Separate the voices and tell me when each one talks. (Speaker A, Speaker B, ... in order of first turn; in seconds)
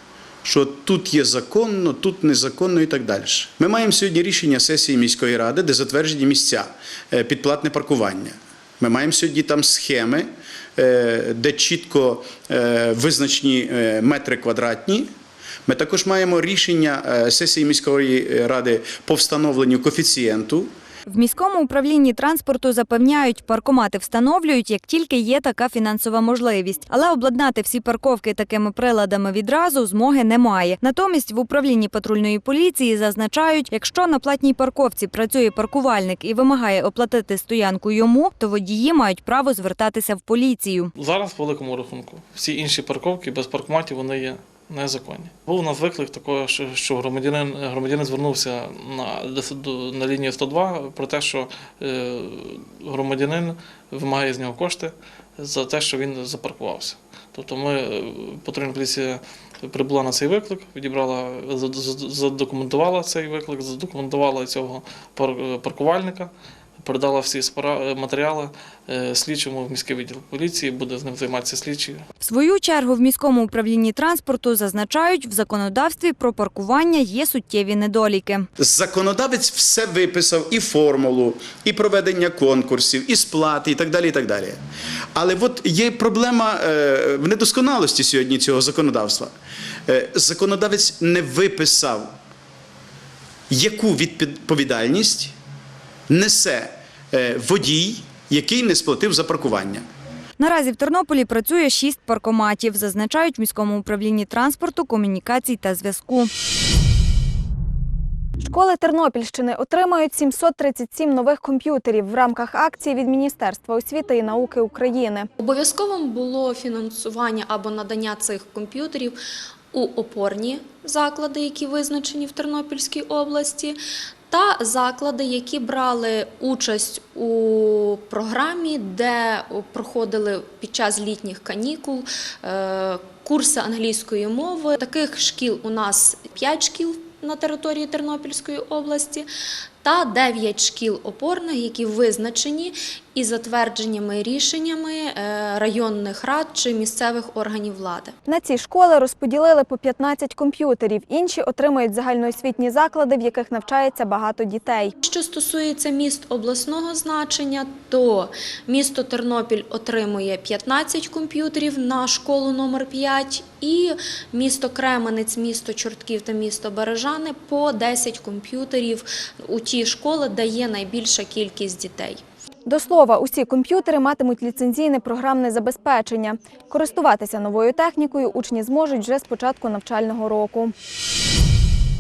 Speaker A: 0.4-15.1, 15.7-20.7, 78.6-84.6, 85.2-89.3, 89.9-92.1, 93.5-95.3, 96.1-99.8
Speaker B: 21.1-40.9, 72.2-78.5, 100.4-106.3
Speaker C: 41.0-72.0
Speaker D: 108.4-115.3, 148.3-154.9, 172.7-180.7
Speaker E: 115.4-119.2, 119.7-139.3, 139.8-148.1, 155.0-172.2